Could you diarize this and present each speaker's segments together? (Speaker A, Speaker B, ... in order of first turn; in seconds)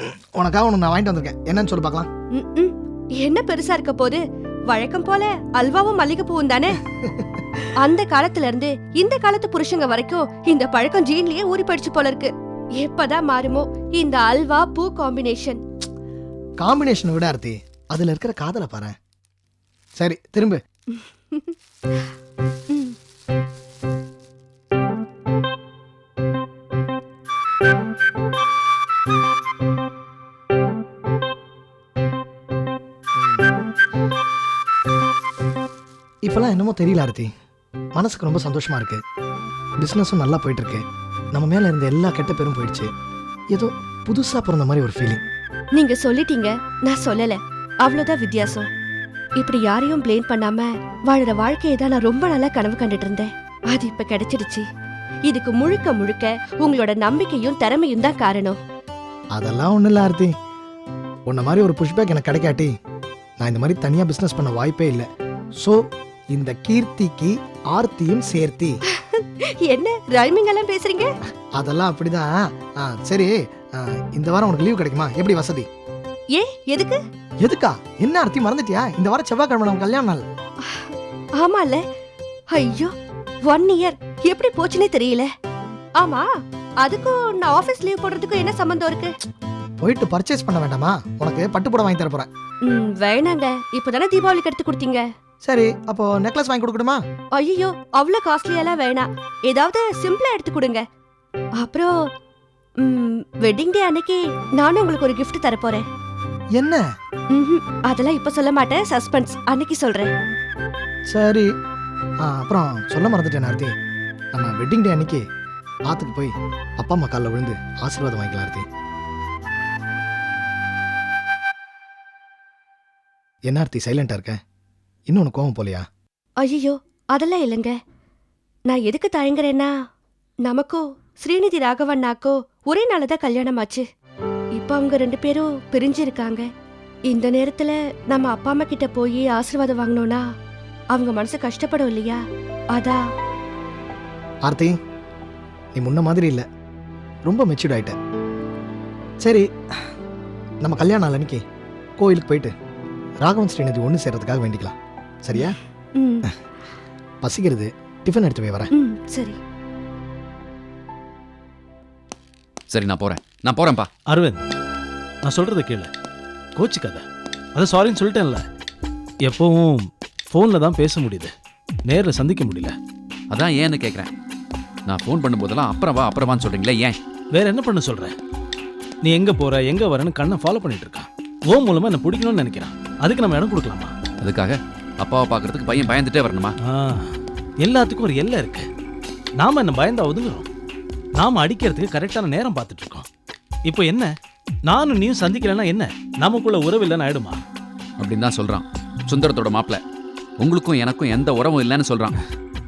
Speaker A: 0.3-2.1, 16.6-18.9, 20.0-20.6, 33.2-33.5, 36.3-37.3, 38.0-39.0, 39.8-40.8, 41.3-42.9, 43.5-45.2, 59.3-60.3, 61.3-62.7, 63.4-65.1, 66.3-68.8, 71.5-75.7, 77.4-80.2, 89.8-92.3, 95.5-97.0, 106.6-106.8, 111.1-111.5, 112.2-113.7, 114.3-115.2, 115.9-118.7, 123.5-124.4, 125.1-125.8, 144.4-144.7, 145.7-146.4, 147.3-147.9, 149.2-149.5, 150.6-151.4, 152.0-152.5, 153.2-155.6, 157.2-158.7
Speaker B: 2.4-6.7, 7.8-15.6, 45.8-48.7, 49.4-54.6, 55.3-58.6, 69.0-71.1, 76.3-77.0, 80.7-81.8, 82.5-82.9, 83.5-85.3, 86.0-86.3, 86.8-89.1, 92.7-95.0, 97.3-100.8, 101.6-101.9, 102.8-105.8, 107.3-110.1, 126.4-127.8, 128.7-129.7, 130.4-133.8, 134.6-136.5, 137.1-140.2, 140.9-142.2, 142.7-143.0, 156.0-156.2, 158.8-159.4
Speaker C: 162.7-163.9, 173.3-174.1, 174.9-177.0, 184.2-186.6, 198.0-199.8, 200.4-202.2
Speaker D: 164.1-164.4, 165.2-165.9, 166.6-167.0, 167.6-168.4, 169.2-171.3, 171.9-172.8, 177.3-178.2, 179.0-183.9, 186.6-188.7, 189.4-190.5, 191.2-193.1, 193.7-194.1, 194.7-197.4